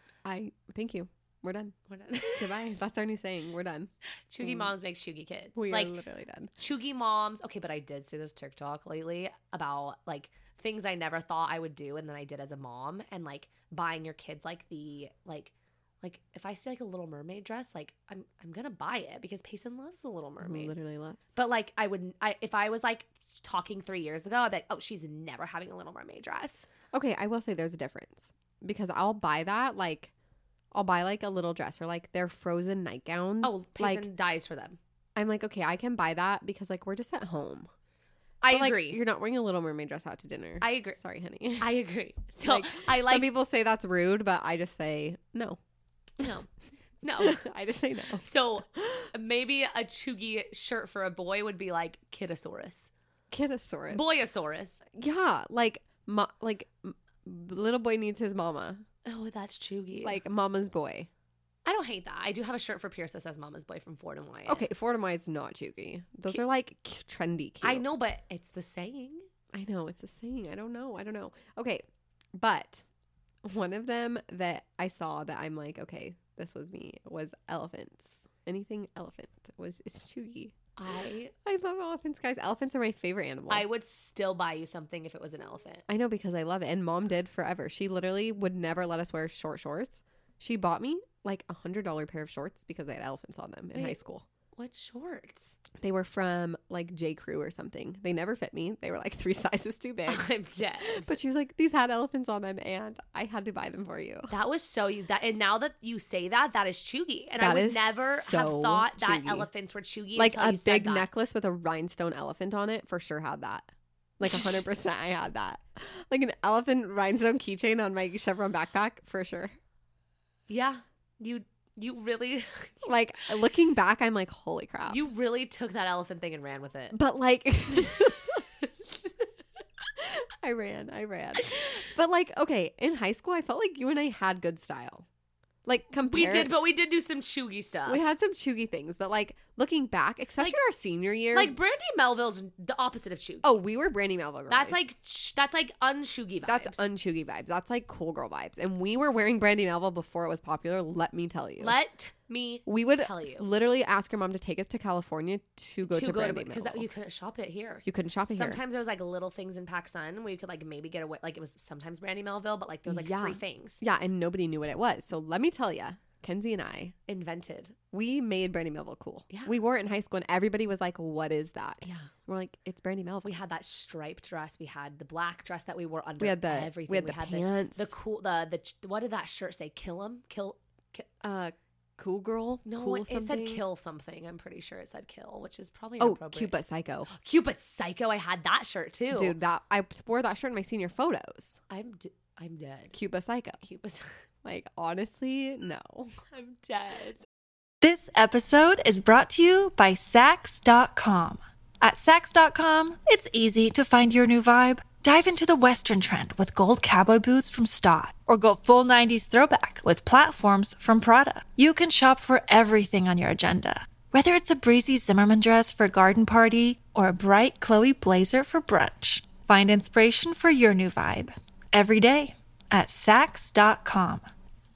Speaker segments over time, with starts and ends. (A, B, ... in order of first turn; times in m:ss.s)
0:00.2-0:01.7 A
0:01.9-0:02.6 B
0:02.3-0:03.9 A
0:04.3-0:05.9 B
0:04.4-0:04.7 A
0:05.5-0:06.5 A
0:06.6-0:20.8 B
0:20.4-0:21.3 A
0:21.4-0:26.7 B
0:26.9-0:30.1 A
0:30.7-0:34.1 A
0:33.4-0:34.8 B
0:35.1-0:37.7 A
0:38.4-0:39.0 B
0:38.5-0:41.7 A
0:40.6-0:41.0 B
0:41.6-0:43.3 B
0:42.4-0:45.6 A
0:46.2-0:46.5 B
0:47.0-0:47.4 B
0:47.2-0:48.3 A
0:48.2-0:52.9 B
0:48.8-0:49.0 A
0:53.3-0:54.0 A
0:53.9-0:54.8 B
0:54.9-0:58.8 A
0:59.0-1:00.2 B
1:00.0-1:01.1 A
1:01.6-1:04.7 B
1:04.4-1:07.8 A
1:07.6-1:09.2 B
1:09.5-1:11.8 A
1:12.3-1:12.8 A
1:13.4-1:20.5 A
1:20.8-1:21.3 B
1:21.4-1:23.6 A
1:23.5-1:25.8 B
1:25.9-1:34.2 A
1:34.6-1:35.6 B
1:35.8-1:40.3 A
1:40.1-1:41.1 B
1:40.8-1:44.3 A
1:44.3-1:51.1 B
1:47.4-1:49.5 A
1:50.2-1:53.7 A
1:54.2-1:59.5 A
2:00.5-2:02.9 B
2:02.8-2:05.0 A
2:04.9-2:07.0 B
2:06.9-2:08.4 A
2:10.0-2:15.0 A
2:11.4-2:11.8 B
2:15.6-2:16.5 A
2:16.0-2:18.0 B
2:17.9-2:21.6 A
2:21.3-2:23.6 B
2:23.4-2:24.9 A
2:24.5-2:26.9 B
2:26.4-2:31.8 A
2:31.6-2:33.5 B
2:32.6-2:36.9 A
2:35.8-2:43.8 B
2:37.8-2:38.6 A
2:42.8-2:46.9 A
2:47.1-2:47.7 B
2:47.9-2:53.3 A
2:53.2-3:01.1 B
2:56.2-2:57.9 A
3:01.2-3:03.6 A
3:02.6-3:06.5 B
3:06.0-3:07.1 A
3:07.1-3:09.3 B
3:09.1-3:11.6 A
3:11.7-3:13.0 B
3:12.9-3:13.6 A
3:13.6-3:14.1 B
3:14.4-3:16.1 A
3:16.3-3:17.2 B
3:17.8-3:44.2 C